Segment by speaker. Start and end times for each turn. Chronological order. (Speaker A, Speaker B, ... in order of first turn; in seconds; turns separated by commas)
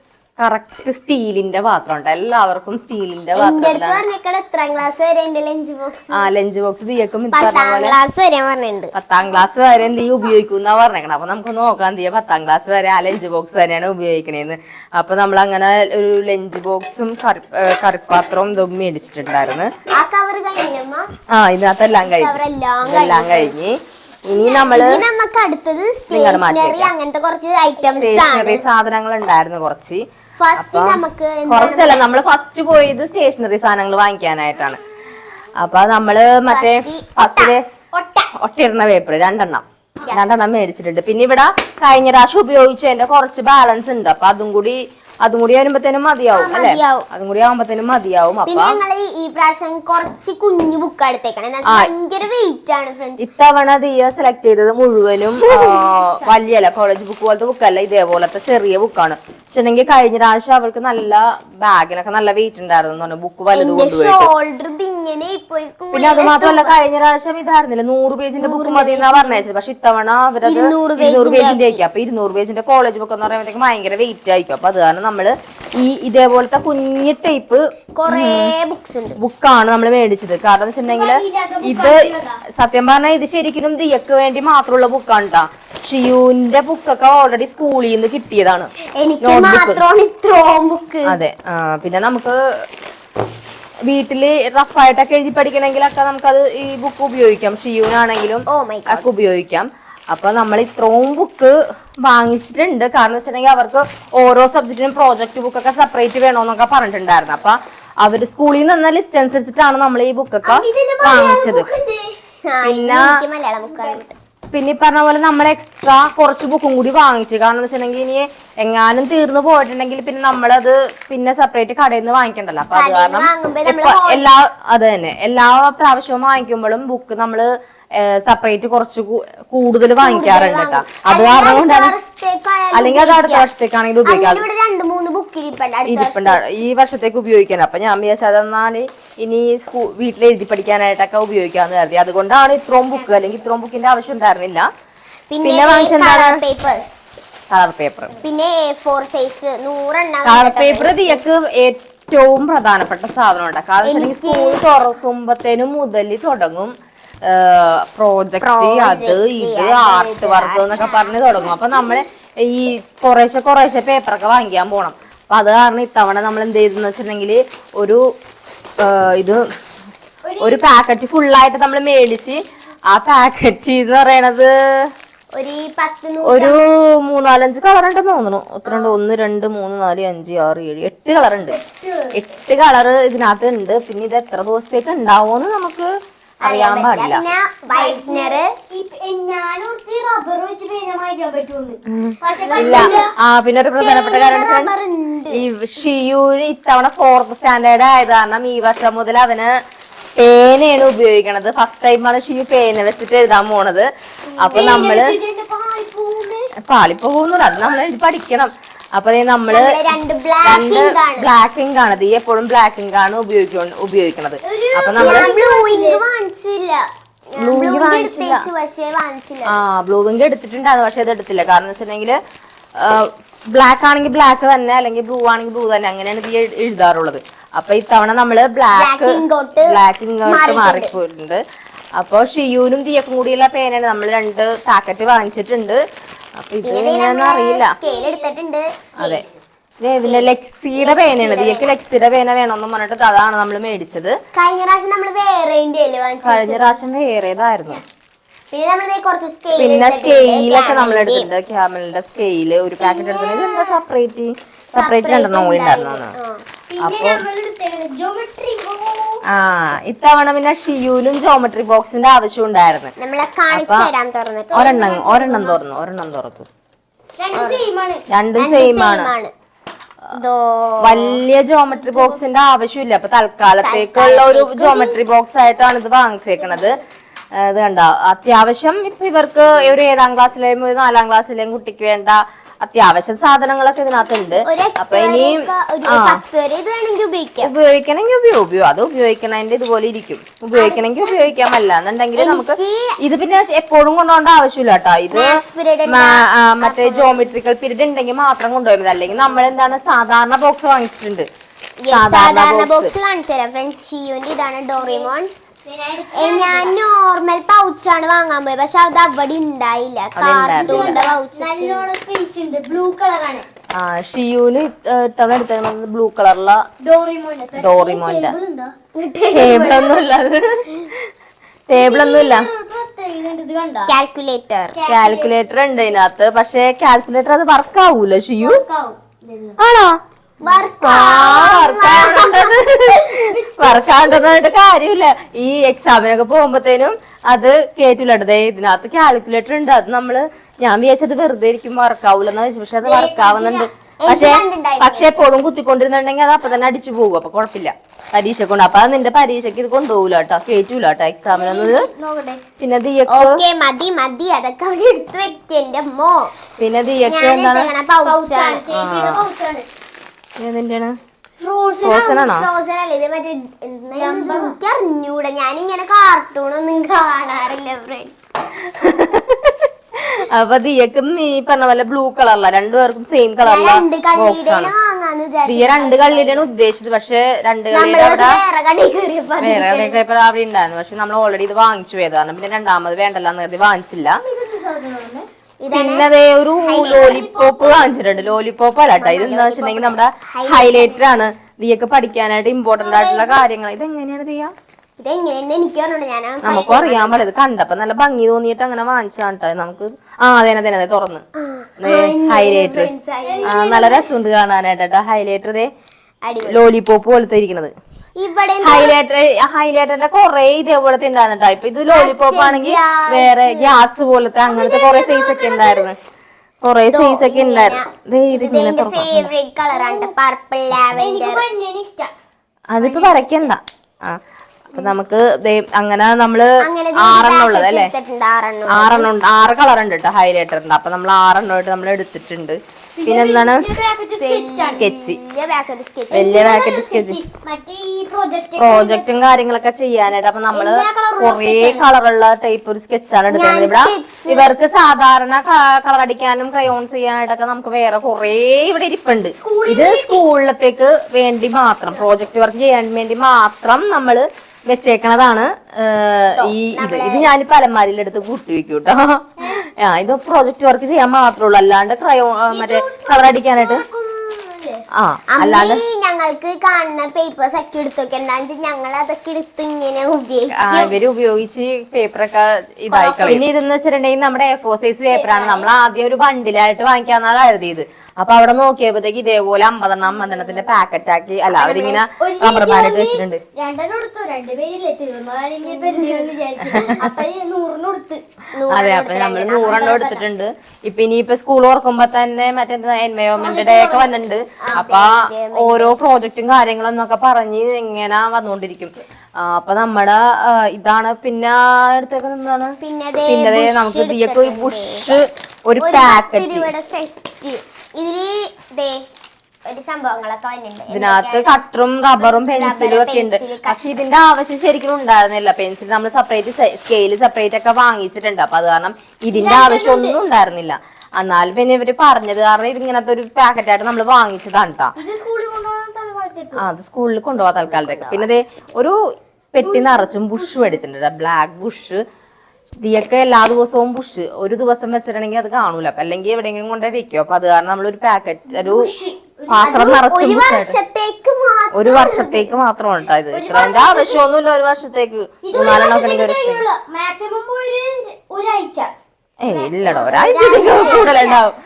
Speaker A: 0.4-4.0, Speaker B: 3.3-6.2, Speaker A: 6.1-8.0, Speaker B: 7.3-8.9, Speaker A: 8.9-19.7, Speaker B: 19.9-21.1, Speaker A: 21.3-23.8, Speaker B: 22.0-23.5, Speaker A: 24.3-25.0, Speaker B: 24.3-28.6, Speaker A: 26.1-26.9, Speaker A: 27.8-30.0, Speaker B: 30.4-32.1, Speaker A: 30.6-34.8, Speaker A: 35.6-37.6, Speaker B: 36.5-37.5, Speaker C: 37.9-38.3, Speaker A: 38.4-48.8, Speaker B: 40.0-40.3, Speaker B: 46.3-47.0, Speaker B: 48.5-53.3, Speaker A: 51.6-51.9, Speaker A: 53.2-64.3, Speaker C: 55.4-56.3, Speaker B: 63.5-66.8, Speaker A: 65.9-78.5, Speaker B: 68.4-69.4, Speaker B: 70.4-71.8, Speaker B: 78.0-79.2, Speaker A: 79.2-88.7, Speaker C: 80.8-82.4, Speaker B: 89.0-91.1, Speaker A: 89.2-89.8, Speaker A: 91.1-92.4, Speaker A: 93.9-111.7, Speaker B: 98.5-99.1, Speaker C: 110.4-112.1, Speaker B: 112.5-114.1, Speaker A: 112.6-113.1, Speaker C: 113.6-114.0, Speaker A: 114.5-131.9, Speaker B: 122.7-124.2, Speaker B: 130.0-133.5, Speaker A: 132.7-134.4, Speaker B: 134.0-136.4, Speaker A: 135.8-144.7, Speaker B: 145.3-146.9, Speaker A: 145.4-146.4, Speaker A: 147.5-148.1, Speaker B: 148.2-151.2, Speaker A: 150.2-156.7, Speaker B: 153.8-154.6, Speaker A: 157.2-168.0, Speaker B: 158.4-161.6, Speaker A: 168.8-169.4, Speaker C: 170.2-170.6, Speaker A: 170.4-174.5, Speaker B: 175.3-176.6, Speaker A: 176.2-181.6, Speaker B: 178.7-178.9, Speaker C: 181.6-182.1, Speaker A: 182.1-185.9, Speaker A: 186.4-187.2, Speaker B: 186.4-188.5, Speaker C: 187.7-193.0, Speaker A: 191.9-194.7, Speaker B: 192.4-193.0, Speaker B: 193.8-195.4, Speaker A: 195.3-199.5, Speaker A: 200.2-203.9, Speaker A: 204.4-205.1, Speaker B: 204.4-205.0, Speaker C: 204.5-206.5, Speaker A: 206.6-209.9, Speaker B: 209.5-211.3, Speaker A: 210.4-215.3, Speaker C: 214.4-216.0, Speaker B: 215.0-219.6, Speaker A: 217.4-218.4, Speaker A: 219.5-222.2, Speaker A: 222.8-231.4, Speaker B: 228.7-230.9, Speaker A: 232.0-235.8, Speaker A: 236.4-237.7, Speaker B: 236.6-239.2, Speaker C: 237.8-238.3, Speaker A: 239.8-244.2, Speaker B: 240.0-241.8, Speaker B: 244.3-246.8, Speaker A: 246.2-247.8, Speaker B: 248.5-251.3, Speaker A: 249.6-256.1, Speaker B: 252.8-253.8, Speaker B: 254.8-256.4, Speaker C: 256.7-259.2, Speaker A: 256.8-257.2, Speaker A: 259.3-262.9, Speaker B: 263.0-265.0, Speaker A: 263.5-263.9, Speaker C: 264.5-265.6, Speaker A: 264.5-266.5, Speaker C: 267.2-268.0, Speaker B: 267.3-267.6, Speaker A: 268.1-269.1, Speaker B: 268.4-269.3, Speaker B: 270.1-271.2, Speaker A: 270.8-276.8, Speaker C: 271.7-272.2, Speaker B: 273.6-275.0, Speaker A: 277.4-286.2, Speaker B: 284.4-287.5, Speaker A: 287.4-301.3, Speaker B: 290.5-291.2, Speaker B: 292.1-292.9, Speaker B: 295.1-297.2, Speaker B: 301.9-305.3, Speaker A: 301.9-302.9, Speaker C: 304.8-305.1, Speaker C: 305.6-306.7, Speaker B: 306.1-311.9, Speaker A: 310.1-311.0, Speaker C: 310.6-313.4, Speaker A: 313.8-316.6, Speaker C: 316.8-318.7, Speaker A: 317.6-318.3, Speaker B: 319.0-320.0, Speaker A: 319.2-321.1, Speaker A: 321.7-322.5, Speaker C: 321.7-323.9, Speaker B: 323.9-324.8, Speaker C: 324.7-325.3, Speaker A: 324.9-328.6, Speaker C: 328.4-329.6, Speaker A: 329.6-330.0, Speaker B: 330.4-332.5, Speaker A: 330.8-351.9, Speaker C: 331.3-332.4, Speaker C: 333.0-334.4, Speaker C: 342.8-343.7, Speaker B: 344.0-345.2, Speaker C: 351.3-352.4, Speaker A: 352.6-353.4, Speaker B: 353.1-356.3, Speaker A: 356.6-357.7, Speaker B: 357.1-358.6, Speaker C: 358.0-359.6, Speaker A: 358.7-359.2, Speaker A: 360.4-361.0, Speaker C: 361.4-362.2, Speaker A: 361.8-362.5, Speaker B: 362.1-368.2, Speaker C: 363.9-364.6, Speaker A: 368.6-374.7, Speaker B: 373.4-376.4, Speaker A: 375.4-378.4, Speaker B: 377.7-380.0, Speaker A: 379.4-384.2, Speaker C: 384.2-385.2, Speaker B: 385.6-387.3, Speaker A: 385.7-394.5, Speaker C: 386.7-388.3, Speaker B: 388.9-391.0, Speaker C: 392.8-393.4, Speaker B: 395.0-397.3, Speaker A: 396.4-401.2, Speaker B: 401.3-404.0, Speaker A: 401.8-402.9, Speaker C: 403.2-404.0, Speaker A: 403.4-405.7, Speaker B: 406.2-406.6, Speaker A: 406.4-407.7, Speaker B: 408.2-408.9, Speaker A: 408.6-415.9, Speaker B: 411.9-413.8, Speaker B: 414.4-415.9, Speaker A: 416.6-419.3, Speaker B: 416.9-421.4, Speaker C: 419.7-420.1, Speaker C: 421.0-422.1, Speaker A: 422.7-424.2, Speaker B: 422.9-423.5, Speaker A: 424.7-427.9, Speaker B: 426.6-429.1, Speaker A: 428.7-433.6, Speaker C: 433.0-434.8, Speaker B: 434.2-436.5, Speaker A: 434.8-435.2, Speaker A: 436.1-437.2, Speaker C: 436.1-439.1, Speaker A: 438.6-463.8, Speaker C: 440.5-441.9, Speaker B: 443.3-444.5, Speaker C: 449.4-450.2, Speaker B: 456.4-457.3, Speaker C: 462.5-464.8, Speaker A: 464.9-465.8, Speaker B: 465.3-470.9, Speaker A: 470.5-483.4, Speaker B: 472.9-473.4, Speaker C: 475.1-475.6, Speaker B: 481.5-482.0, Speaker C: 482.1-488.2, Speaker B: 485.6-487.2, Speaker A: 486.7-486.9, Speaker B: 488.5-490.2, Speaker A: 488.7-506.7, Speaker C: 489.6-490.1, Speaker C: 493.4-494.2, Speaker B: 494.6-496.0, Speaker B: 502.8-505.0, Speaker B: 505.8-509.0, Speaker B: 509.6-511.5, Speaker A: 510.9-524.9, Speaker B: 512.2-513.8, Speaker C: 519.3-520.1, Speaker C: 525.0-526.6, Speaker A: 526.5-529.0, Speaker B: 527.6-528.3, Speaker A: 529.5-532.0, Speaker C: 529.6-530.8, Speaker A: 532.8-538.9, Speaker C: 538.5-539.8, Speaker A: 539.5-540.8, Speaker B: 539.6-542.5, Speaker A: 541.7-546.6, Speaker C: 543.3-544.2, Speaker C: 545.4-548.9, Speaker A: 549.4-551.5, Speaker C: 549.5-551.4, Speaker B: 549.8-551.4